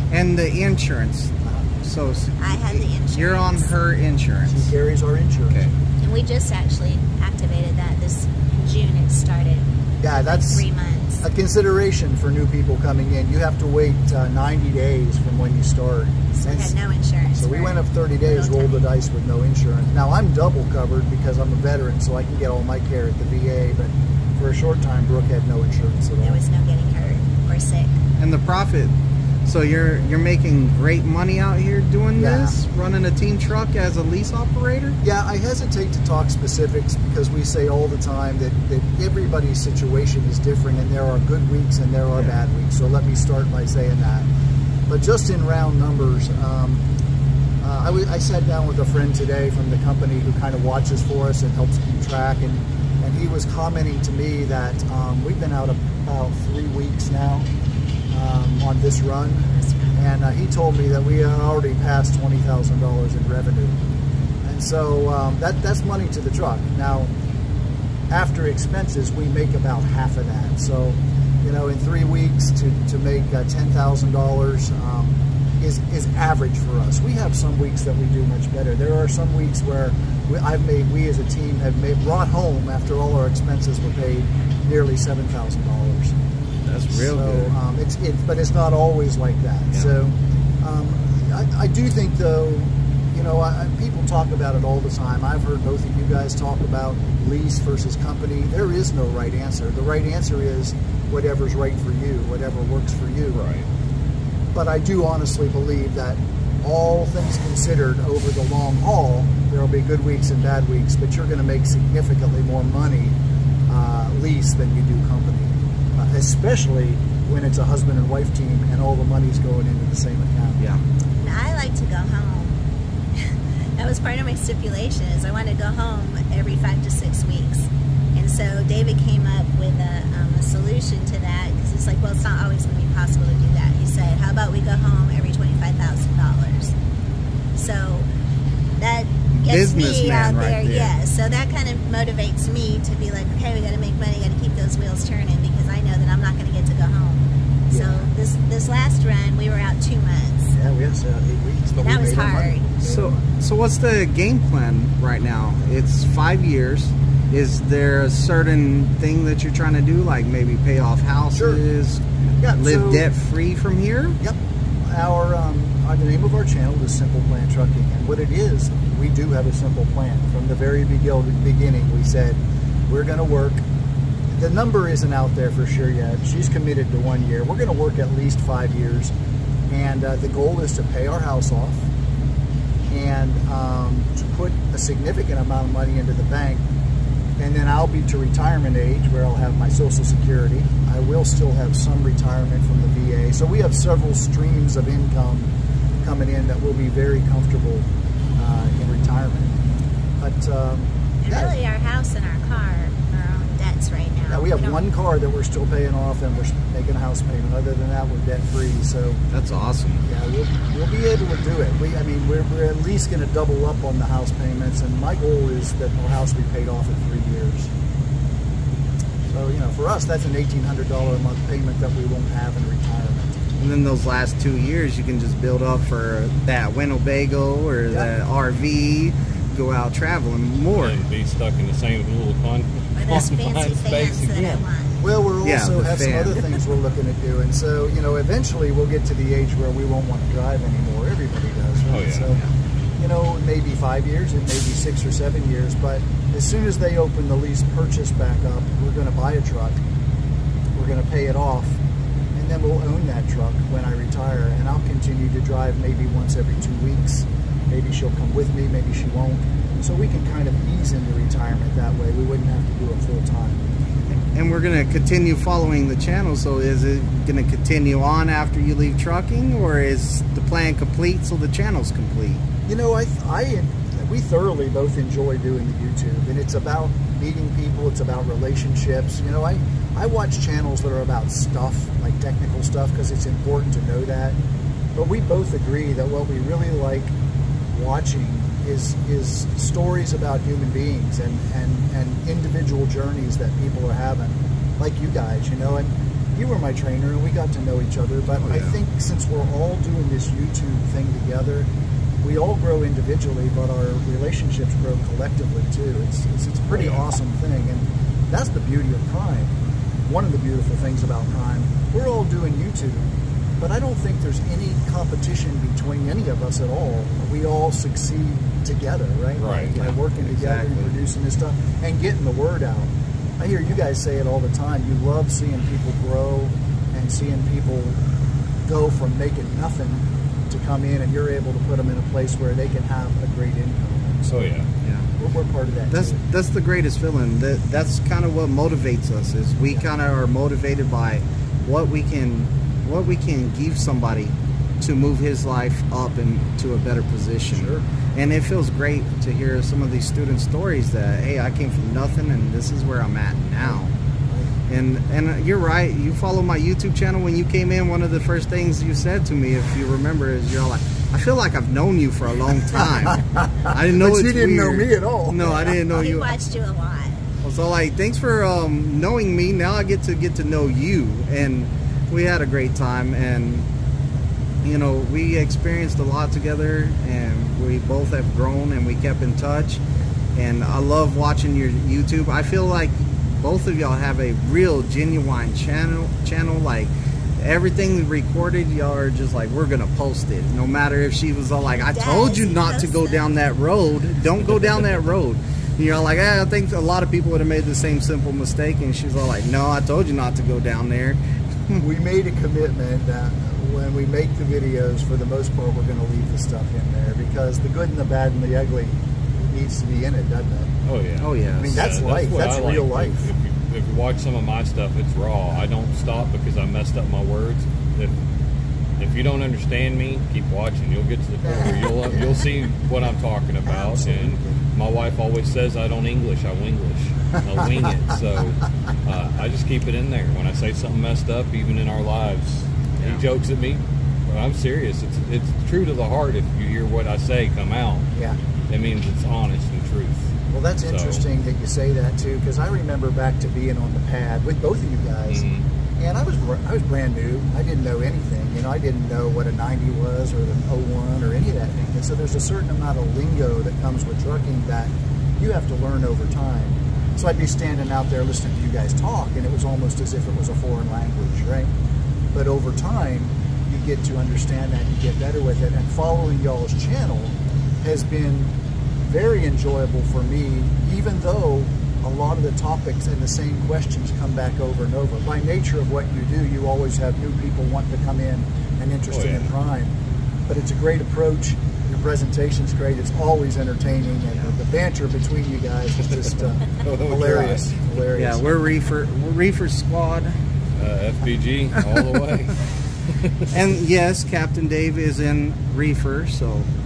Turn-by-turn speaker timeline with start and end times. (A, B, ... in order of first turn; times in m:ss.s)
0:00.1-0:04.7 A
0:02.4-0:03.7 B
0:04.5-0:05.7 C
0:06.0-0:09.7 B
0:10.0-0:10.7 C
0:10.3-0:11.2 B
0:11.2-0:16.7 C
0:16.3-0:18.8 B
0:17.3-0:26.4 C
0:26.2-0:28.0 B
0:28.2-0:28.9 A
0:29.4-0:35.0 A
0:32.2-0:32.6 C
0:35.0-0:44.3 C
0:44.9-0:46.8 C
0:47.6-0:57.5 C
0:58.1-1:03.8 C
0:59.5-0:59.9 B
1:04.4-1:07.1 C
1:08.1-1:26.1 C
1:26.6-1:27.5 A
1:26.9-1:43.4 C
1:43.3-1:43.7 D
1:44.5-1:53.1 C
1:53.7-2:00.6 C
2:01.2-2:02.6 B
2:03.1-2:16.7 B
2:17.5-2:18.1 B
2:18.8-2:30.6 B
2:19.3-2:20.9 A
2:27.7-2:28.1 C
2:30.5-2:33.2 C
2:31.8-2:32.7 B
2:32.8-2:44.2 A
2:41.3-2:41.6 C
2:42.4-2:43.1 C
2:44.2-2:53.6 C
2:54.3-2:59.1 C
2:59.7-3:01.8 C
3:02.9-3:06.6 C
3:07.4-3:15.5 C
3:16.0-3:19.6 C
3:20.2-3:21.5 C
3:21.2-3:24.8 B
3:24.3-3:29.2 C
3:29.3-3:30.0 A
3:30.1-3:37.7 C
3:39.3-3:43.4 C
3:43.6-3:51.0 A
3:50.7-3:54.6 D
3:52.9-3:55.0 B
3:55.0-4:02.4 C
3:55.4-3:56.6 A
4:01.8-4:02.3 D
4:03.0-4:09.8 C
4:10.7-4:11.8 C
4:12.3-4:23.6 C
4:24.3-4:32.4 A
4:32.7-4:44.4 C
4:44.9-4:47.1 C
4:47.7-5:01.7 C
4:58.4-4:58.8 A
5:02.2-5:09.5 C
5:06.7-5:07.0 D
5:10.0-5:13.1 C
5:13.6-5:28.0 C
5:19.4-5:19.8 D
5:19.7-5:20.9 A
5:28.6-5:34.5 C
5:34.3-5:34.7 D
5:35.2-5:36.2 C
5:35.9-5:53.9 A
5:47.5-5:47.8 C
5:54.7-6:06.3 A
6:03.1-6:05.7 C
6:05.6-6:07.2 B
6:07.4-6:13.6 A
6:14.6-6:19.8 A
6:20.3-6:41.8 A
6:31.8-6:33.3 B
6:41.8-6:50.7 C
6:50.8-6:58.1 D
6:51.2-6:51.8 A
6:51.6-6:53.3 C
6:59.0-7:18.1 D
7:01.4-7:02.4 C
7:03.7-7:04.5 C
7:18.1-7:18.4 C
7:18.7-7:20.3 D
7:20.5-7:25.4 C
7:20.9-7:21.2 D
7:25.3-7:25.6 D
7:26.0-7:41.7 C
7:42.3-7:48.5 C
7:49.0-7:59.9 C
7:59.1-7:59.5 D
8:00.5-8:08.4 C
8:06.7-8:07.7 D
8:08.1-8:10.4 A
8:10.8-8:12.6 D
8:11.7-8:12.2 A
8:13.1-8:13.5 D
8:13.5-8:16.7 A